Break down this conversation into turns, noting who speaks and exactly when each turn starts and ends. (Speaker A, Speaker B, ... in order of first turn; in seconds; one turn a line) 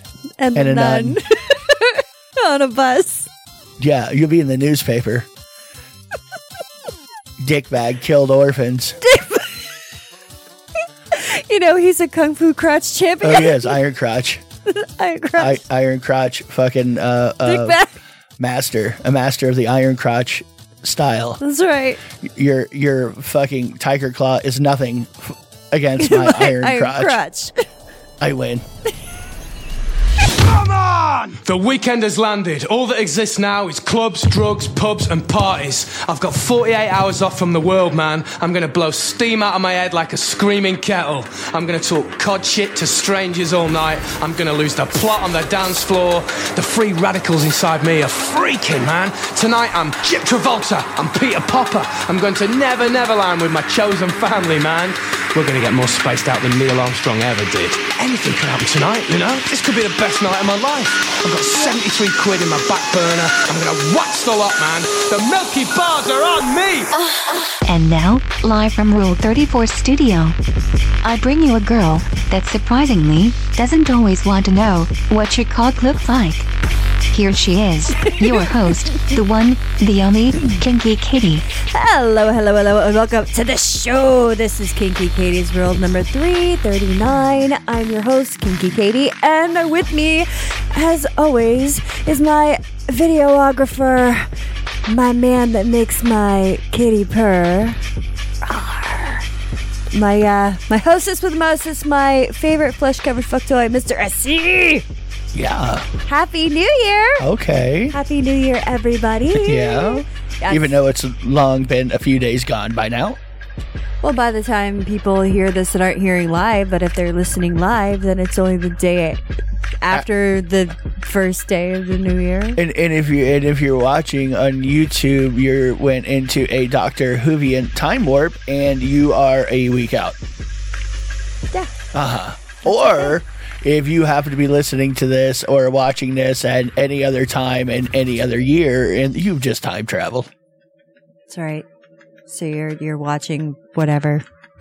Speaker A: 0.4-3.3
Speaker B: 0.5-1.2
Speaker B: 3.8-5.3
Speaker B: 7.4-9.0
Speaker A: 9.0-9.7
Speaker A: 11.1-13.8
Speaker B: 13.2-14.4
Speaker A: 14.7-15.6
Speaker B: 15.4-17.8
Speaker A: 17.4-18.0
Speaker B: 18.4-21.4
Speaker A: 21.4-22.0
Speaker B: 22.2-27.2
Speaker A: 26.0-27.6
Speaker B: 28.2-28.6
Speaker C: 30.4-66.9
Speaker D: 67.6-70.4
Speaker D: 71.0-76.5
Speaker D: 77.1-81.5
Speaker A: 78.2-78.5
Speaker A: 81.7-94.3
Speaker A: 94.8-97.8
Speaker A: 98.4-99.2
Speaker A: 99.9-104.8
Speaker B: 105.3-105.9
Speaker A: 106.0-107.3
Speaker B: 107.2-108.0
Speaker A: 107.9-110.7
Speaker B: 109.3-113.2
Speaker A: 114.0-119.2
Speaker A: 119.8-122.6
Speaker B: 122.6-130.2
Speaker B: 131.9-140.3
Speaker A: 132.7-133.1
Speaker A: 141.3-141.6
Speaker A: 142.3-144.2